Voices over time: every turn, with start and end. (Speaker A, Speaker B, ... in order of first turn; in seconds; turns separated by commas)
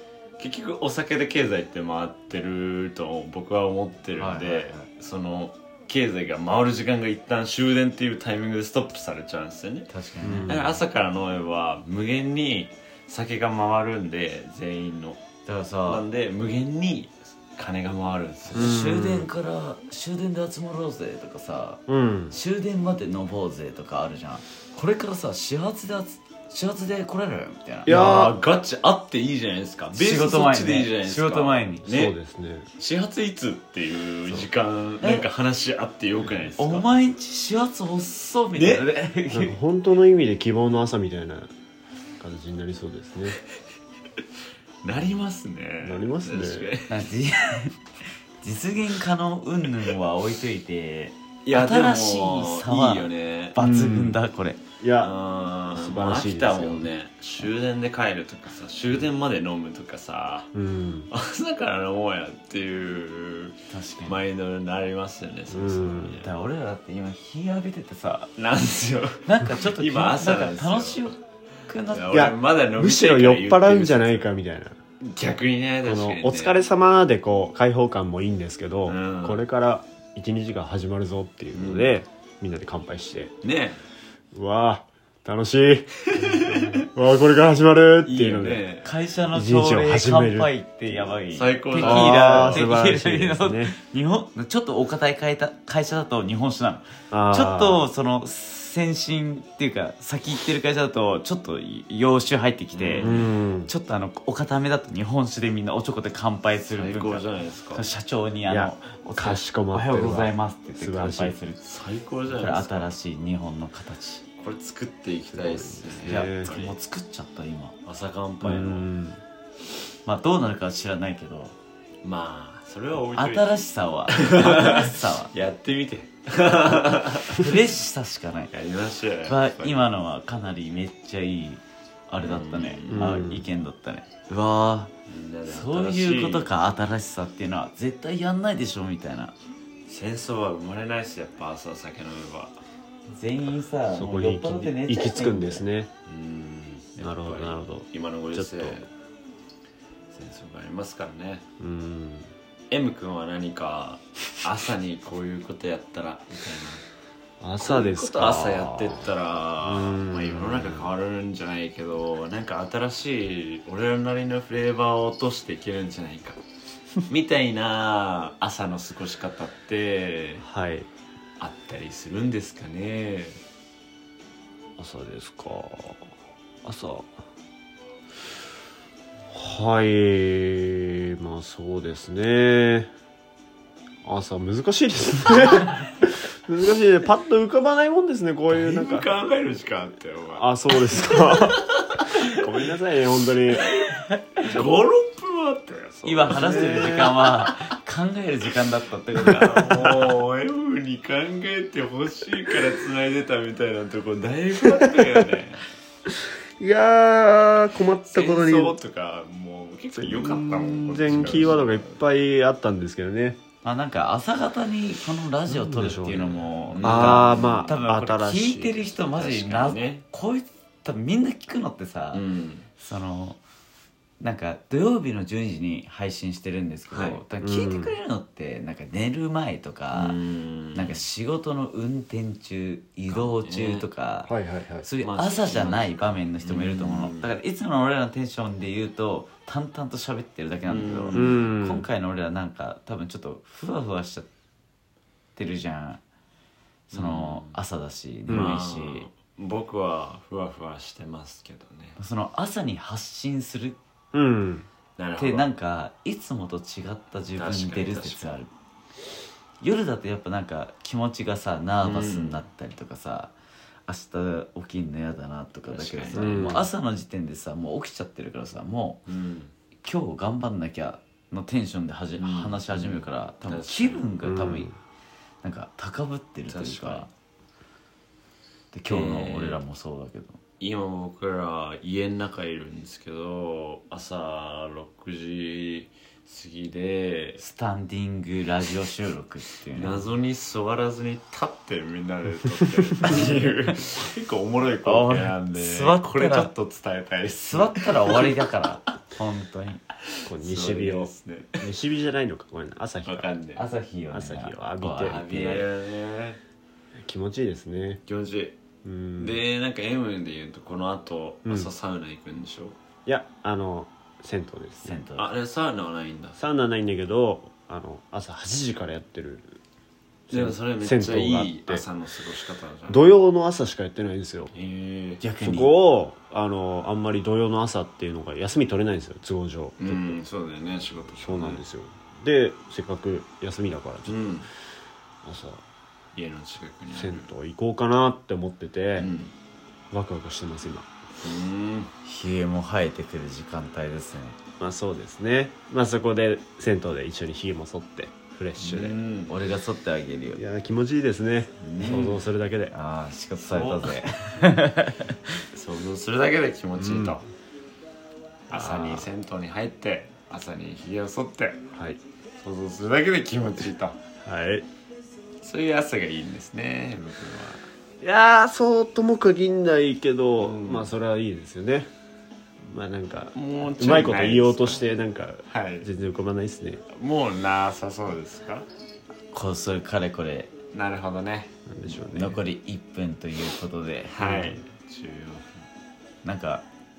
Speaker A: 0.4-15.2, Speaker B: 4.2-4.9, Speaker B: 9.9-10.7, Speaker C: 10.2-10.8, Speaker B: 15.4-16.1, Speaker A: 15.9-18.8, Speaker B: 18.5-28.3, Speaker C: 18.5-19.3, Speaker C: 21.9-22.4, Speaker C: 27.9-28.4, Speaker A: 27.9-32.2, Speaker B: 29.9-31.9, Speaker C: 31.9-32.7, Speaker A: 32.8-36.9, Speaker B: 35.0-35.3, Speaker B: 36.6-39.6, Speaker A: 38.5-38.9, Speaker C: 39.3-41.5, Speaker C: 42.2-43.4, Speaker A: 44.8-47.0, Speaker C: 45.8-46.7, Speaker B: 46.9-47.8, Speaker B: 48.4-54.6, Speaker A: 51.5-53.6, Speaker C: 53.6-54.2, Speaker C: 54.8-55.1, Speaker A: 55.0-60.5, Speaker C: 55.7-56.9, Speaker C: 60.5-61.1, Speaker A: 61.1-66.3, Speaker B: 63.7-64.3, Speaker C: 65.5-66.2, Speaker B: 66.2-68.3, Speaker A: 68.4-71.1, Speaker B: 69.2-72.3, Speaker A: 71.9-74.3, Speaker C: 72.1-74.8, Speaker A: 75.0-76.6, Speaker C: 75.8-83.3, Speaker A: 78.8-79.4, Speaker A: 81.5-82.0, Speaker A: 83.4-83.8, Speaker C: 84.3-88.6, Speaker A: 86.2-86.8, Speaker A: 88.0-88.9, Speaker B: 88.8-111.6, Speaker C: 89.3-90.5, Speaker A: 91.3-92.7, Speaker C: 91.8-93.7, Speaker C: 97.1-97.8, Speaker A: 102.7-103.3, Speaker C: 103.0-103.7, Speaker A: 106.7-107.9, Speaker C: 108.5-111.4, Speaker A: 111.6-112.9, Speaker B: 112.3-114.2, Speaker A: 114.4-116.8, Speaker C: 115.4-116.6, Speaker B: 116.0-117.8, Speaker A: 117.8-118.9, Speaker C: 118.4-119.2, Speaker B: 120.0-121.6, Speaker A: 122.0-123.6, Speaker B: 123.1-125.3, Speaker A: 124.1-127.5, Speaker B: 127.3-128.5, Speaker A: 128.5-129.9, Speaker B: 129.2-134.9, Speaker A: 132.2-133.1, Speaker C: 132.9-133.5, Speaker A: 135.1-136.5, Speaker B: 135.5-139.3, Speaker A: 139.9-142.6, Speaker B: 143.1-145.6, Speaker C: 143.9-145.9, Speaker A: 146.1-148.9, Speaker C: 147.0-148.9, Speaker A: 150.1-151.4, Speaker C: 151.6-152.3, Speaker A: 152.7-156.8, Speaker C: 157.4-159.1, Speaker A: 157.6-166.4, Speaker C: 159.6-160.9, Speaker A: 167.1-170.4, Speaker C: 170.4-170.9, Speaker A: 171.4-173.4, Speaker C: 174.8-176.1, Speaker C: 176.6-177.1, Speaker C: 179.3-182.9, Speaker C: 184.0-189.1, Speaker A: 188.5-192.7, Speaker C: 190.4-193.7, Speaker A: 193.5-197.5, Speaker B: 193.8-194.4, Speaker B: 196.0-199.9, Speaker C: 196.3-197.3, Speaker C: 199.2-200.0, Speaker A: 199.5-205.6, Speaker C: 204.6-205.3, Speaker C: 206.6-208.8, Speaker A: 208.1-212.0, Speaker C: 209.9-213.4, Speaker B: 213.6-222.3, Speaker C: 215.5-218.9, Speaker A: 216.7-217.8, Speaker A: 219.0-220.1, Speaker A: 222.1-222.7, Speaker B: 222.8-223.4, Speaker B: 224.2-230.2, Speaker A: 226.9-227.2, Speaker C: 227.4-228.0, Speaker A: 229.9-231.1, Speaker B: 230.7-244.3, Speaker A: 233.1-233.9, Speaker C: 234.3-234.9, Speaker A: 235.0-237.3, Speaker A: 240.7-241.4, Speaker C: 241.1-241.9, Speaker B: 245.4-246.0, Speaker B: 246.9-249.1, Speaker A: 246.9-247.6, Speaker C: 248.3-248.6, Speaker A: 248.3-252.0, Speaker B: 252.0-253.8, Speaker C: 254.1-254.7, Speaker A: 255.0-255.5, Speaker B: 255.2-258.5, Speaker A: 257.4-258.4, Speaker B: 259.6-263.3, Speaker A: 261.8-262.4, Speaker B: 263.9-269.1, Speaker A: 265.7-266.6, Speaker C: 266.1-266.7, Speaker A: 269.1-269.5, Speaker B: 269.8-274.7, Speaker A: 272.2-274.1, Speaker C: 274.2-274.7, Speaker B: 275.4-277.1, Speaker A: 276.5-277.1, Speaker B: 278.7-280.4, Speaker A: 278.9-279.6, Speaker A: 280.6-287.4, Speaker B: 287.4-290.1, Speaker A: 289.7-298.4, Speaker B: 293.1-293.4, Speaker B: 294.9-296.5, Speaker B: 297.3-299.8, Speaker A: 300.2-301.7, Speaker C: 300.3-303.3, Speaker A: 303.1-303.6, Speaker B: 303.6-305.7, Speaker C: 304.1-305.2, Speaker A: 305.1-306.4, Speaker C: 307.0-308.0, Speaker A: 308.1-308.6, Speaker C: 308.8-309.4, Speaker A: 309.2-312.8, Speaker C: 313.1-315.0, Speaker B: 314.8-315.3, Speaker A: 315.2-316.4, Speaker C: 316.4-319.6, Speaker C: 320.3-321.9, Speaker A: 320.3-323.2, Speaker C: 322.9-324.5, Speaker A: 324.5-325.2, Speaker B: 325.2-325.9, Speaker C: 325.4-330.2, Speaker A: 329.8-331.6, Speaker C: 331.2-334.5, Speaker A: 334.1-334.5, Speaker C: 335.2-335.6, Speaker A: 336.1-337.3, Speaker C: 336.9-339.1, Speaker A: 339.0-339.3, Speaker C: 339.9-340.9, Speaker A: 341.2-341.9, Speaker B: 342.1-344.4, Speaker C: 344.6-349.0, Speaker A: 348.6-349.3, Speaker B: 349.3-350.4, Speaker C: 350.4-352.7, Speaker B: 351.6-355.2, Speaker A: 353.4-354.1, Speaker A: 355.5-357.2, Speaker C: 356.8-357.2, Speaker C: 358.5-359.1, Speaker A: 358.5-361.6, Speaker C: 361.7-362.0, Speaker A: 362.4-364.0, Speaker C: 364.2-364.7, Speaker A: 365.4-367.7, Speaker C: 368.0-371.9, Speaker A: 370.4-370.9, Speaker C: 372.6-376.8, Speaker A: 373.3-374.9, Speaker A: 375.5-375.9, Speaker A: 376.9-378.7, Speaker B: 379.3-380.5, Speaker A: 380.7-381.5, Speaker C: 381.7-382.4, Speaker B: 381.9-384.5, Speaker A: 384.1-385.5, Speaker C: 384.2-384.6, Speaker B: 386.2-386.6